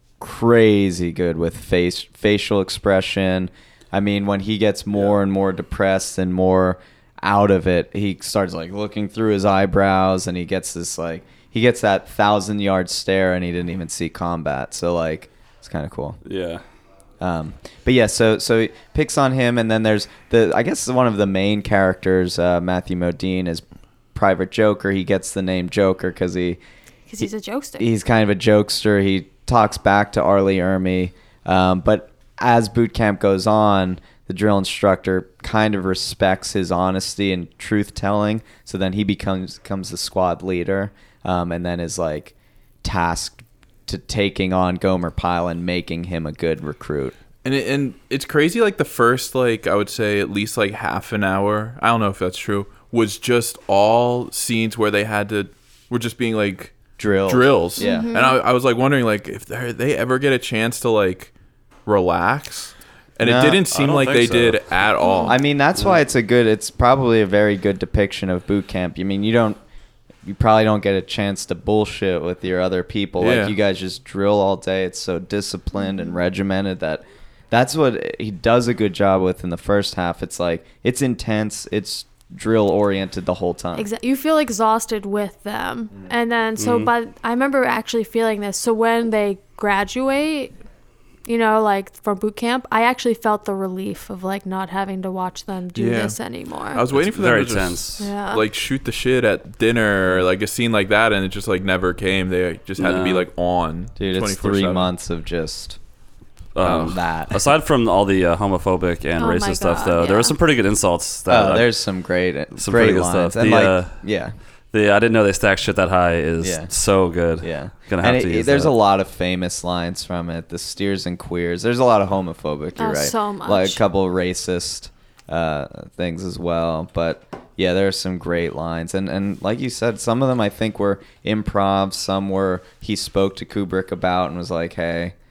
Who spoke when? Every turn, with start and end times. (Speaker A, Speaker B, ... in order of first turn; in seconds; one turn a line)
Speaker A: 0.2-16.2
Speaker B: 16.2-16.6
Speaker A: 17.2-23.6
Speaker A: 24.1-26.6
Speaker C: 27.1-27.9
Speaker A: 27.8-47.1
Speaker D: 47.4-61.3
Speaker A: 57.0-58.1
Speaker C: 57.8-58.4
Speaker D: 61.9-65.4
Speaker A: 63.2-63.7
Speaker B: 63.7-64.6
Speaker C: 65.0-65.3
Speaker A: 65.3-69.6
Speaker A: 70.2-83.9
Speaker D: 73.2-73.5
Speaker C: 83.8-90.5
Speaker B: 86.6-86.9
Speaker C: 91.3-96.8
Speaker D: 95.8-96.2
Speaker D: 96.7-104.9
Speaker B: 96.9-98.1
Speaker C: 98.0-98.5
Speaker B: 102.8-103.3
Speaker A: 104.0-105.8
Speaker B: 106.5-111.7
Speaker A: 106.6-107.4
Speaker C: 109.2-110.4
Speaker A: 111.3-114.3
Speaker B: 112.5-114.0
Speaker B: 114.7-118.7
Speaker A: 116.4-116.7
Speaker A: 117.4-135.2
Speaker C: 122.8-123.8